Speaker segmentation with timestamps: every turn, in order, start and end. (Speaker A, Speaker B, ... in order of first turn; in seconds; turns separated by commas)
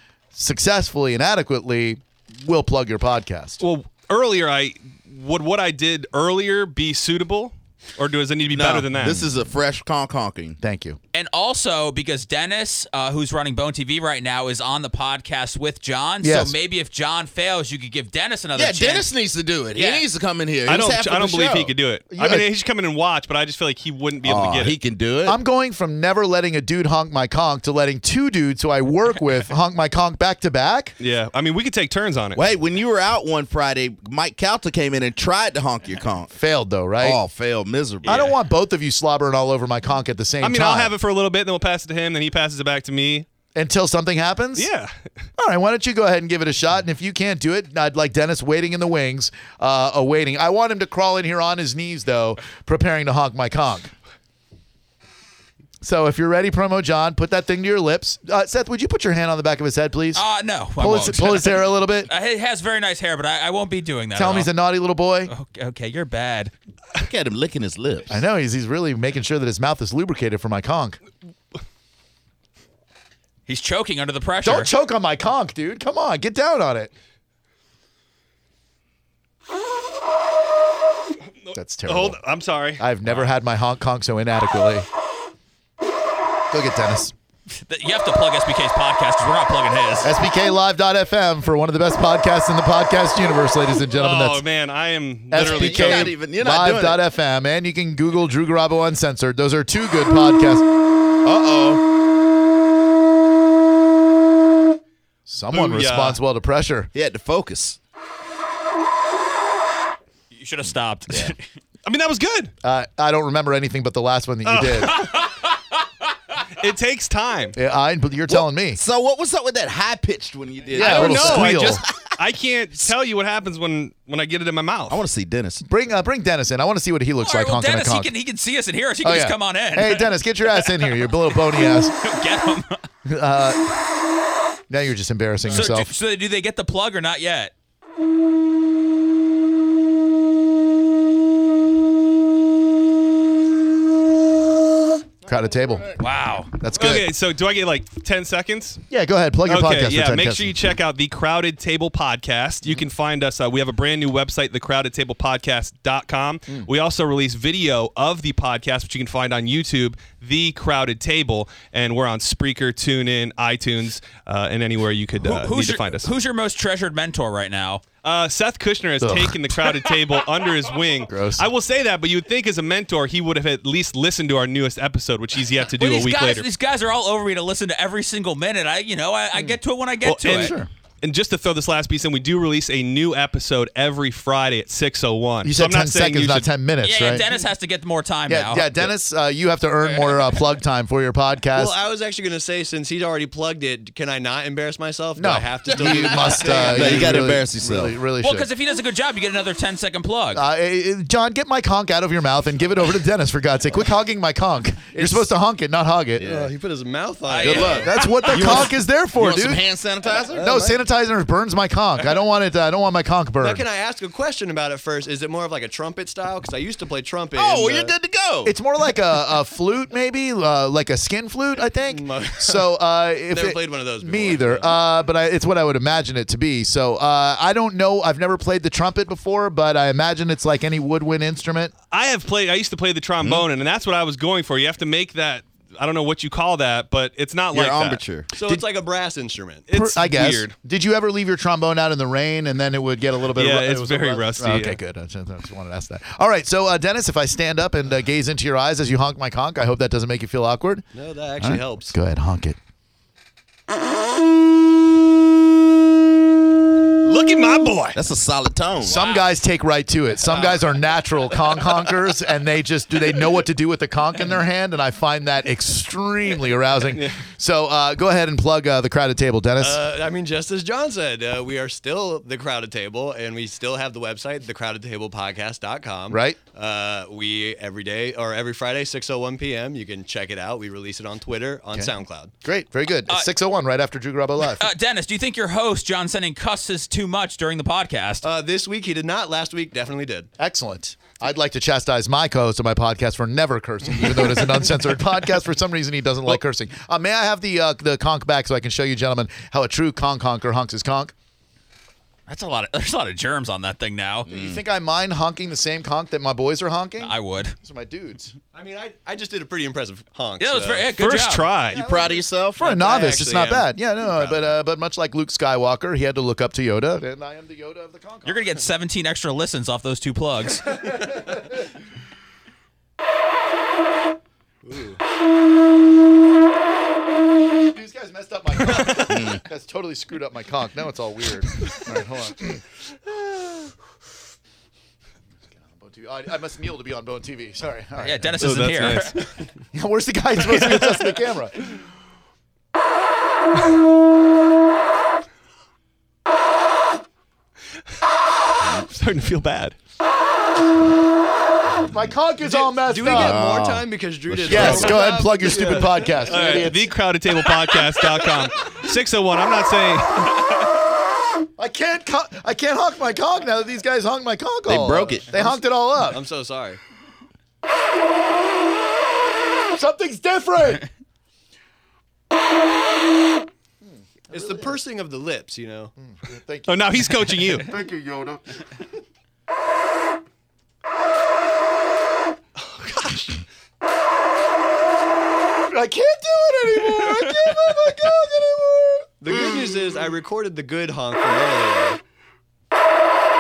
Speaker A: 0.3-3.6, Speaker B: 3.6-9.3, Speaker C: 8.5-10.6, Speaker A: 10.6-11.0, Speaker D: 11.1-19.1, Speaker A: 16.2-16.6, Speaker C: 18.6-21.7, Speaker D: 19.8-20.1, Speaker B: 20.6-24.8, Speaker A: 22.1-22.5, Speaker C: 24.2-25.4, Speaker A: 25.2-31.0, Speaker B: 31.0-32.4, Speaker C: 32.4-36.4, Speaker A: 36.4-37.2, Speaker C: 37.0-38.3, Speaker A: 38.0-40.9, Speaker B: 40.4-43.3, Speaker A: 43.5-44.7, Speaker B: 44.5-44.9, Speaker A: 45.4-53.9, Speaker A: 55.8-60.2, Speaker D: 60.1-64.5, Speaker A: 60.8-62.1, Speaker A: 64.2-65.3, Speaker D: 65.3-66.5, Speaker C: 67.0-68.2, Speaker A: 68.1-71.0, Speaker D: 73.5-74.7, Speaker A: 74.4-76.9, Speaker B: 81.4-82.9, Speaker A: 81.5-82.2, Speaker A: 82.8-84.9, Speaker A: 86.5-87.1, Speaker D: 87.7-90.1, Speaker A: 90.0-94.4, Speaker B: 93.9-96.1, Speaker A: 95.3-100.7, Speaker C: 95.4-97.0, Speaker C: 101.2-101.8, Speaker A: 105.3-106.9, Speaker B: 105.5-106.2, Speaker C: 106.9-107.8, Speaker D: 110.3-111.4, Speaker C: 111.1-111.3, Speaker B: 111.8-112.5, Speaker A: 112.6-115.0, Speaker B: 114.5-115.2, Speaker D: 115.2-115.4, Speaker B: 116.6-117.5, Speaker A: 117.5-118.8, Speaker C: 118.3-122.0, Speaker A: 120.8-121.8, Speaker B: 120.8-125.0, Speaker C: 124.9-125.6, Speaker A: 125.6-128.1, Speaker D: 127.2-132.9, Speaker A: 129.0-131.9, Speaker A: 133.1-133.7, Speaker A: 134.7-135.9, Speaker D: 135.5-137.5, Speaker A: 145.3-145.9, Speaker D: 146.0-146.6, Speaker A: 146.5-147.1, Speaker B: 146.8-148.8, Speaker A: 148.9-150.6, Speaker B: 149.4-166.1, Speaker D: 165.2-167.9, Speaker B: 168.0-176.5, Speaker A: 169.0-169.5, Speaker A: 171.1-171.5, Speaker D: 175.8-180.5, Speaker A: 179.3-179.6, Speaker B: 180.0-186.5, Speaker A: 180.3-180.7, Speaker A: 185.4-187.3, Speaker D: 186.8-188.9, Speaker A: 188.3-191.8, Speaker E: 191.5-197.4, Speaker A: 195.2-198.5, Speaker C: 195.8-198.0, Speaker D: 198.2-200.4, Speaker A: 200.3-206.3, Speaker E: 205.0-205.3, Speaker C: 206.2-206.5, Speaker E: 206.2-208.7, Speaker D: 207.3-208.2, Speaker C: 207.5-210.5, Speaker A: 207.7-209.6, Speaker E: 210.1-210.8, Speaker A: 210.4-213.6, Speaker E: 213.4-217.9, Speaker C: 217.3-218.5, Speaker A: 218.4-231.7, Speaker E: 221.9-222.7, Speaker E: 223.3-224.8, Speaker B: 231.9-238.0, Speaker C: 233.2-233.5, Speaker C: 237.5-238.3, Speaker E: 238.3-239.6, Speaker B: 239.6-240.5, Speaker A: 239.7-252.6, Speaker B: 243.3-244.8, Speaker E: 250.9-251.9, Speaker B: 257.0-258.0, Speaker C: 257.9-259.0, Speaker A: 258.8-269.8, Speaker E: 260.2-260.6, Speaker E: 261.4-261.7, Speaker E: 269.6-282.3, Speaker A: 276.1-276.4, Speaker A: 281.7-284.6, Speaker D: 284.6-288.3, Speaker E: 288.2-290.3, Speaker A: 290.4-301.1, Speaker E: 294.1-294.4, Speaker D: 302.3-304.3, Speaker A: 304.3-308.3, Speaker C: 304.3-304.6, Speaker D: 307.0-307.6, Speaker E: 308.5-310.9, Speaker D: 310.4-311.5, Speaker B: 310.9-311.8, Speaker A: 311.7-318.4, Speaker C: 311.7-312.7, Speaker E: 312.6-314.5, Speaker D: 318.2-320.8, Speaker E: 321.0-321.3, Speaker E: 324.6-325.0, Speaker A: 327.6-332.6, Speaker C: 329.1-329.4, Speaker A: 335.6-339.0, Speaker D: 338.0-339.2, Speaker B: 338.4-339.4, Speaker A: 339.7-341.7, Speaker B: 340.4-341.2, Speaker B: 348.8-349.8, Speaker A: 351.8-353.5, Speaker E: 352.4-356.6, Speaker C: 353.1-355.0, Speaker A: 354.5-356.9, Speaker B: 356.3-360.6, Speaker A: 361.6-366.2, Speaker C: 364.7-365.3, Speaker E: 365.3-366.8, Speaker A: 369.7-370.9, Speaker A: 374.3-374.8, Speaker E: 374.3-375.9, Speaker A: 376.0-378.8, Speaker B: 376.7-377.7, Speaker E: 382.6-383.4, Speaker A: 385.7-389.7, Speaker D: 387.0-387.8, Speaker E: 389.2-392.0